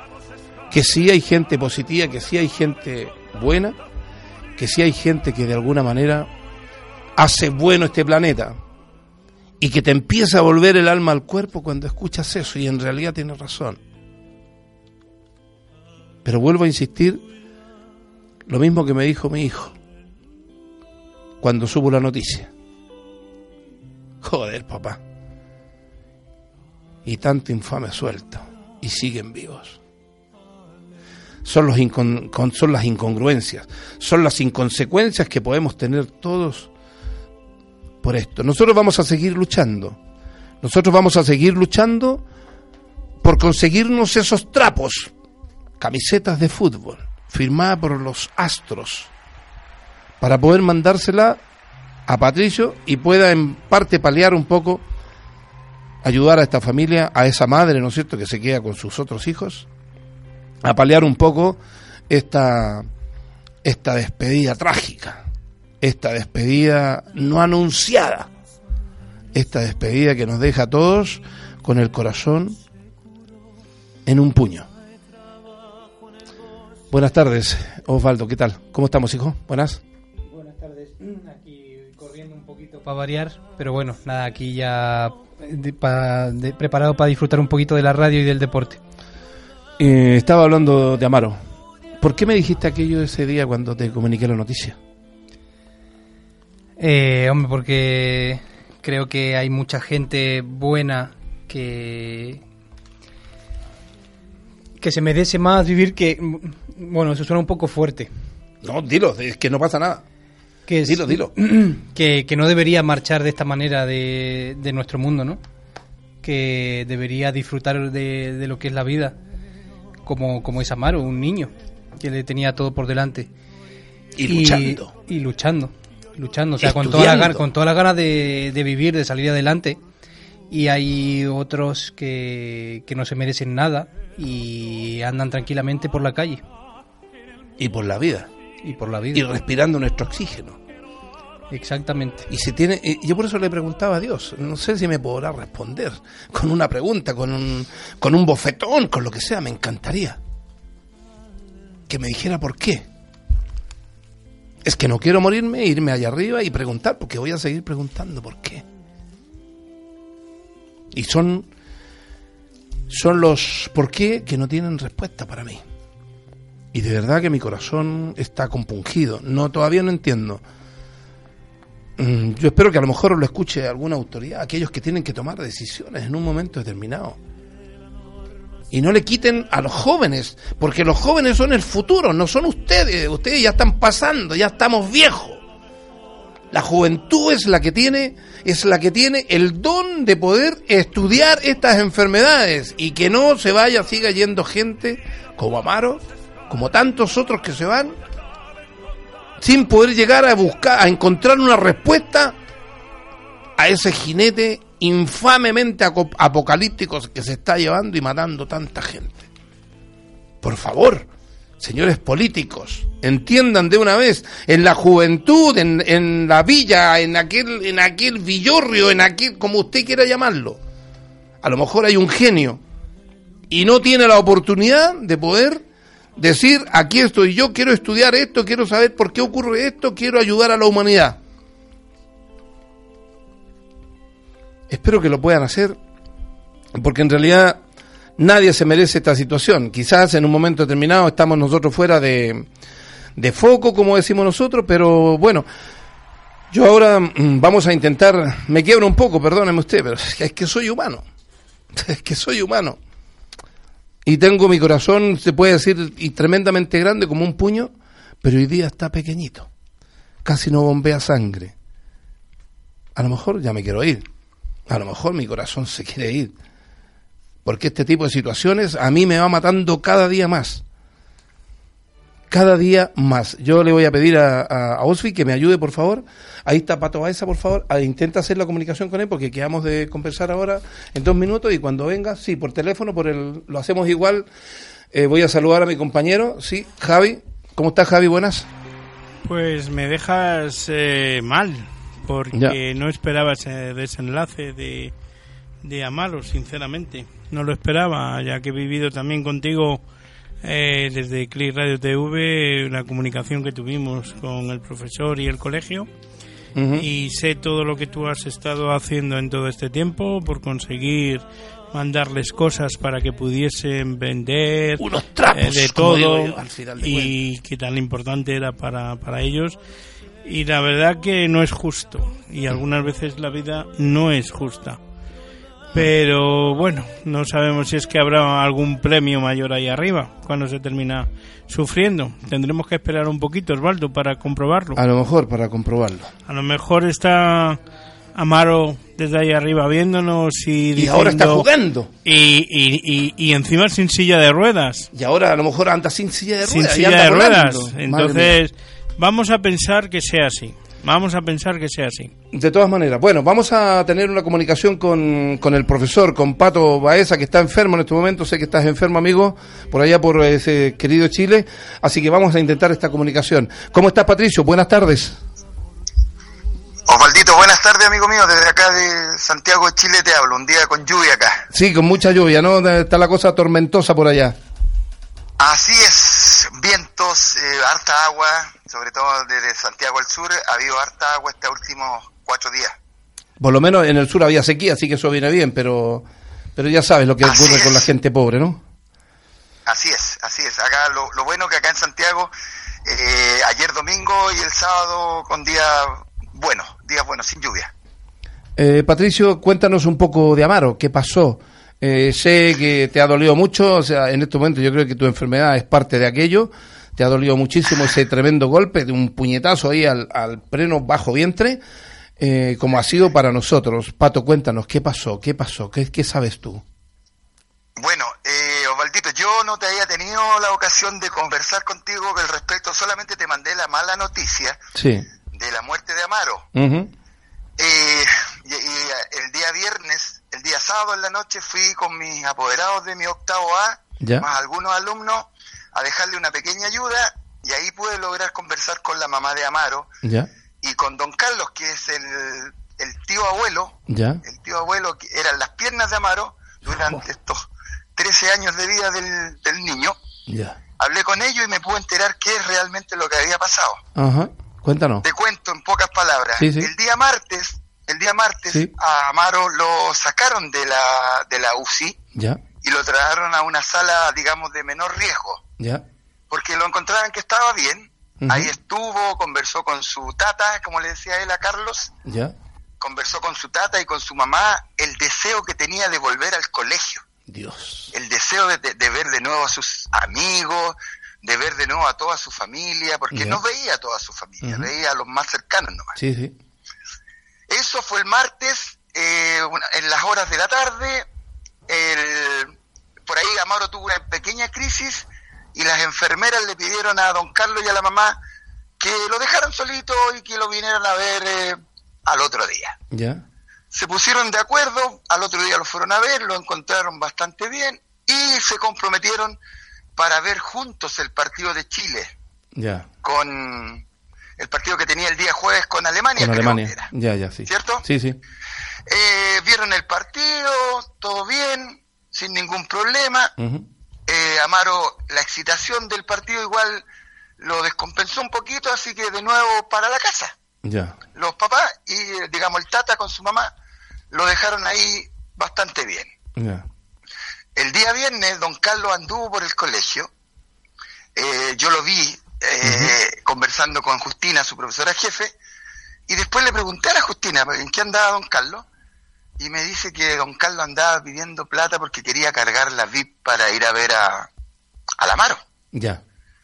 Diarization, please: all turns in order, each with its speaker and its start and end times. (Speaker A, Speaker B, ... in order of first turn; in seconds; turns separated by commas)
Speaker A: 0.7-3.8, Speaker A: 4.6-6.3, Speaker A: 7.2-8.6, Speaker A: 9.6-13.8, Speaker A: 16.2-17.2, Speaker A: 18.4-19.7, Speaker A: 21.4-22.5, Speaker A: 24.2-25.0, Speaker A: 27.0-29.8, Speaker A: 31.4-36.7, Speaker A: 38.0-40.0, Speaker A: 40.6-42.2, Speaker A: 43.2-45.1, Speaker A: 45.8-49.1, Speaker A: 50.2-51.4, Speaker A: 52.1-54.8, Speaker A: 56.0-59.7, Speaker A: 60.6-62.8, Speaker A: 63.6-65.2, Speaker A: 65.8-68.3, Speaker A: 69.3-72.6, Speaker A: 74.0-74.7, Speaker A: 76.9-79.8, Speaker B: 80.3-88.8, Speaker A: 89.8-91.4, Speaker A: 92.0-94.8, Speaker B: 96.8-102.4, Speaker B: 104.8-108.1, Speaker A: 108.6-110.0, Speaker B: 110.7-115.4, Speaker A: 110.8-111.3, Speaker B: 116.2-119.2, Speaker B: 120.0-123.3, Speaker A: 124.1-124.9, Speaker B: 124.2-129.8, Speaker A: 126.6-127.4, Speaker B: 130.5-136.4, Speaker A: 137.6-138.3, Speaker B: 138.6-139.2, Speaker A: 139.1-140.6, Speaker B: 141.5-142.3, Speaker A: 142.3-150.2, Speaker A: 151.9-152.9, Speaker A: 154.6-158.6, Speaker A: 160.9-161.5, Speaker A: 162.9-165.6, Speaker A: 166.7-170.4, Speaker A: 172.0-177.2, Speaker A: 178.7-185.4, Speaker A: 186.5-198.0, Speaker A: 199.4-202.3, Speaker A: 203.6-209.3, Speaker A: 210.4-211.1, Speaker A: 211.6-220.6, Speaker A: 221.4-222.6, Speaker A: 223.5-225.6, Speaker A: 226.2-231.2, Speaker A: 234.7-235.8, Speaker A: 236.7-237.6, Speaker A: 238.2-242.5, Speaker A: 243.2-245.4, Speaker A: 246.5-251.0, Speaker A: 251.7-252.8, Speaker A: 254.0-259.5, Speaker A: 260.2-261.5, Speaker A: 262.9-264.0, Speaker A: 264.7-266.3, Speaker A: 267.4-270.6, Speaker A: 272.3-284.3, Speaker A: 284.9-288.5, Speaker C: 289.2-294.9, Speaker C: 295.6-299.8, Speaker C: 300.4-305.9, Speaker A: 306.5-306.9, Speaker C: 306.8-319.6, Speaker A: 314.8-317.1, Speaker C: 320.2-324.8, Speaker C: 325.7-334.8, Speaker A: 334.7-336.1, Speaker C: 336.2-337.6, Speaker C: 338.1-341.5, Speaker A: 340.8-341.9, Speaker C: 342.0-344.9, Speaker A: 344.9-348.4, Speaker C: 346.4-352.1, Speaker A: 352.3-365.2, Speaker D: 366.9-371.5, Speaker A: 371.5-374.4, Speaker D: 375.4-382.8, Speaker A: 383.4-388.6, Speaker D: 387.2-387.9, Speaker D: 389.6-392.3, Speaker D: 392.9-397.7, Speaker A: 398.6-411.6, Speaker A: 412.2-416.6, Speaker D: 417.8-424.6, Speaker A: 424.7-425.1, Speaker D: 425.3-426.5, Speaker A: 426.5-426.9, Speaker D: 427.6-439.9, Speaker A: 434.0-434.3, Speaker A: 440.0-440.3, Speaker D: 440.6-450.0, Speaker A: 443.9-444.2, Speaker A: 446.7-447.0, Speaker A: 450.3-450.6, Speaker D: 450.8-453.8, Speaker A: 453.9-455.0, Speaker D: 455.0-462.0, Speaker A: 456.4-456.7, Speaker A: 462.1-462.4, Speaker D: 462.6-465.4, Speaker A: 465.6-465.8, Speaker D: 466.3-471.9, Speaker A: 468.2-468.5, Speaker A: 472.0-472.3, Speaker D: 472.8-477.0, Speaker A: 477.3-477.9, Speaker D: 477.9-485.9, Speaker A: 483.1-483.4, Speaker A: 484.4-484.7, Speaker A: 485.9-486.3, Speaker D: 487.5-491.1, Speaker D: 491.7-498.2, Speaker D: 498.8-502.8, Speaker A: 502.9-503.2, Speaker D: 503.7-509.4, Speaker D: 509.9-512.1, Speaker A: 512.5-512.9, Speaker D: 513.0-513.8, Speaker D: 514.4-516.9, Speaker A: 516.2-518.2, Speaker D: 517.4-517.9, Speaker D: 518.9-523.3, Speaker A: 523.4-523.6, Speaker D: 524.1-526.9, Speaker D: 527.4-530.3, Speaker A: 530.6-531.0, Speaker D: 531.1-533.5, Speaker D: 534.1-536.1, Speaker A: 536.4-536.6, Speaker D: 537.5-540.1, Speaker D: 541.1-545.4, Speaker A: 542.6-542.9, Speaker D: 546.1-548.6, Speaker D: 549.4-554.3, Speaker D: 555.0-555.4, Speaker A: 555.7-556.0